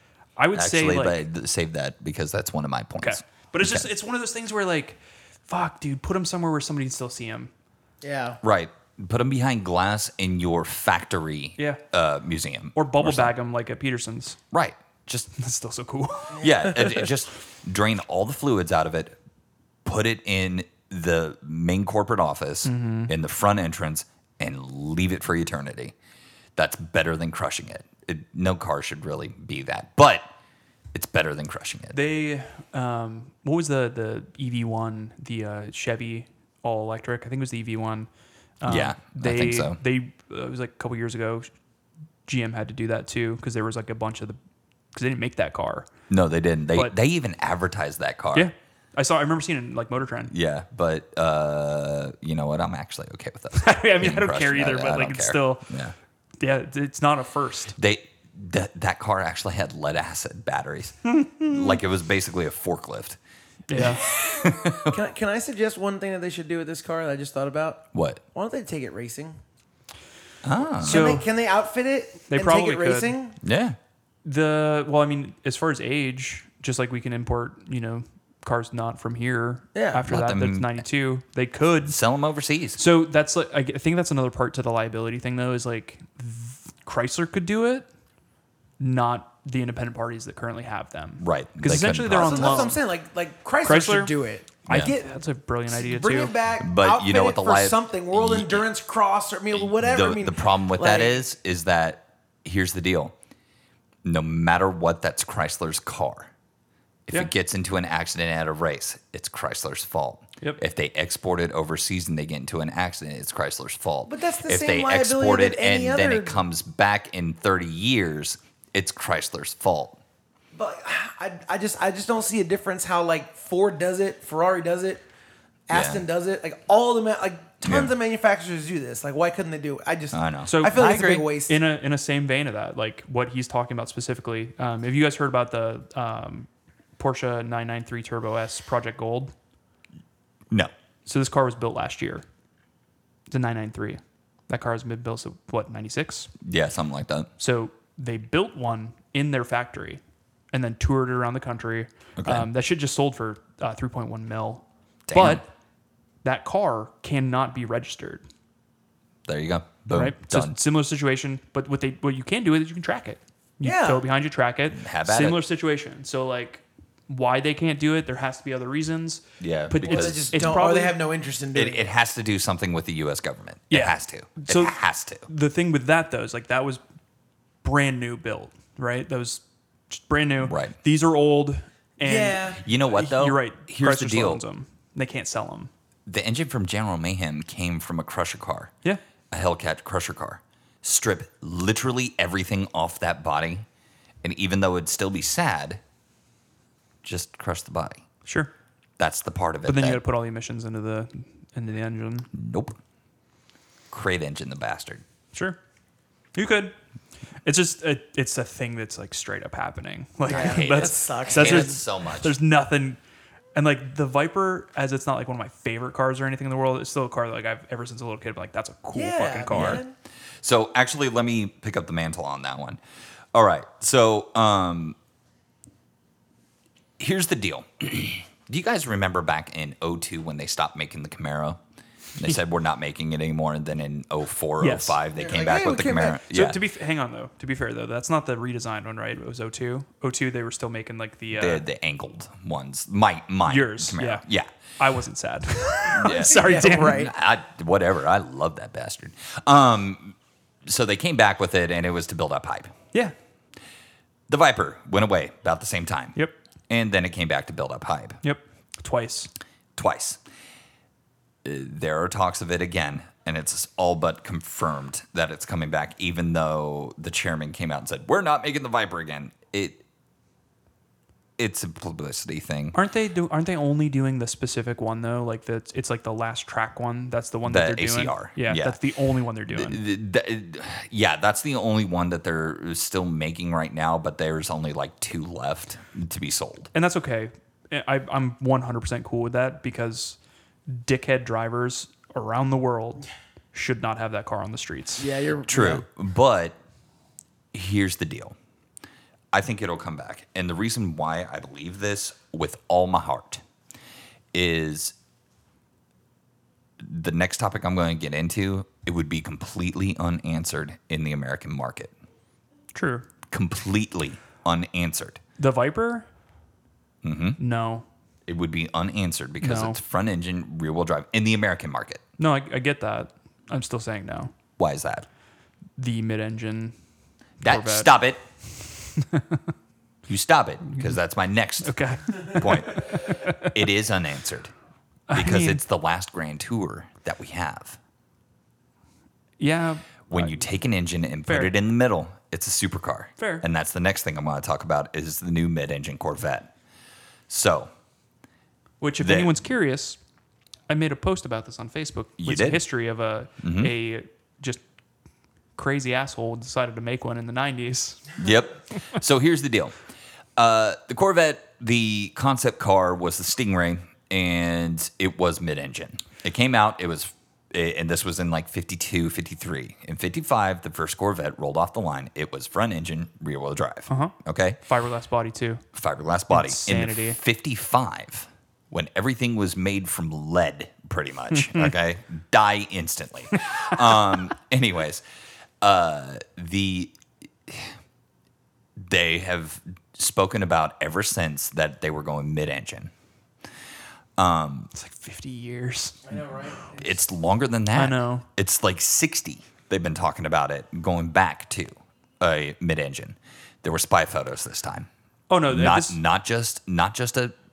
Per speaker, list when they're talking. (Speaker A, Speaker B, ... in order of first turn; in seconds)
Speaker A: 0.4-1.2, 3.0-7.5, 12.7-14.4, 15.3-16.4, 22.6-23.1, 31.9-38.1, 38.6-41.5, 42.3-44.4, 44.9-45.9, 48.3-50.3, 53.5-55.7, 56.4-57.7, 61.1-61.8, 63.7-64.1, 70.8-71.2, 72.3-73.1, 74.2-82.0, 82.8-87.9, 88.8-92.8, 93.6-94.1, 94.7-96.3, 130.4-139.3, 141.1-142.2, 143.3-146.3, 147.4-150.0, 150.5-155.5, 156.2-158.2, 159.9-170.9, 173.7-176.8, 177.6-185.7, 198.2-198.5, 199.6-202.3, 205.3-205.6, 206.3-206.7, 207.4-213.0, 213.6-219.8, 234.6-235.0, 236.3-241.6, 243.4-244.2, 244.8-247.1, 258.2-259.3, 272.7-279.8, 286.7-295.1, 312.7-313.1, 315.4-316.1, 317.4-317.8, 319.4-319.8, 322.2-324.3, 325.8-326.7, 327.4-327.9, 328.9-329.4, 331.6-333.5, 335.1-335.6, 339.4-340.3, 341.3-341.5, 343.2-343.4, 348.8-350.0, 350.7-354.6, 355.6-358.1, 373.9-375.6, 376.3-377.2, 394.7-396.2, 397.7-398.2, 405.3-406.0
Speaker B: 0.5-3.9, 8.4-13.3, 14.5-15.3, 16.4-19.2, 19.8-25.9, 26.6-30.2, 30.9-31.9, 38.6-39.8, 46.1-48.5, 50.3-55.9, 57.8-63.2, 63.7-65.0, 67.9-68.2, 70.4-71.1, 73.4-73.8, 80.1-80.8, 81.8-82.8, 91.2-92.7, 96.6-98.7, 99.5-103.1, 104.0-106.3, 107.1-120.0, 125.7-126.0, 127.6-127.9, 130.1-130.5, 146.4-147.3, 152.2-152.5, 155.1-155.4, 159.2-160.6, 164.7-165.4, 169.4-170.4, 171.5-175.3, 180.4-180.7, 182.6-184.4, 186.1-188.7, 189.3-193.7, 194.2-195.8, 197.0-198.0, 199.0-200.0, 202.3-202.8, 203.9-205.0, 210.3-212.3, 219.5-219.8, 220.4-222.8, 223.3-225.0, 227.0-231.6, 232.2-236.6, 241.3-244.5, 245.9-252.7, 254.3-256.1, 256.7-258.2, 259.8-260.2, 261.4-269.8, 271.4-272.7, 277.4-278.8, 279.5-286.7, 295.5-296.6, 297.5-298.4, 299.3-303.4, 304.3-304.9, 306.8-311.9, 313.3-315.2, 317.0-317.4, 318.3-322.0, 324.6-325.1, 327.4-328.2, 330.1-334.5, 335.1-337.8, 340.1-346.5, 347.3-347.7, 349.0-349.4, 352.2-352.6, 353.4-353.7, 358.2-359.7, 360.4-374.6, 375.7-385.0, 385.6-386.9, 387.4-387.7, 388.8-392.9, 394.2-394.7, 396.8-404.9, 405.5-407.3
Speaker C: 8.0-8.4, 16.4-16.9, 64.9-69.4, 70.8-73.3, 79.7-80.0, 92.1-95.2, 95.7-101.2, 114.1-116.4, 120.5-125.0, 125.7-131.6, 163.6-164.0, 169.8-171.8, 182.0-182.6, 210.3-211.8, 218.9-219.9, 235.1-236.2, 246.1-247.1, 295.0-295.8, 396.1-396.9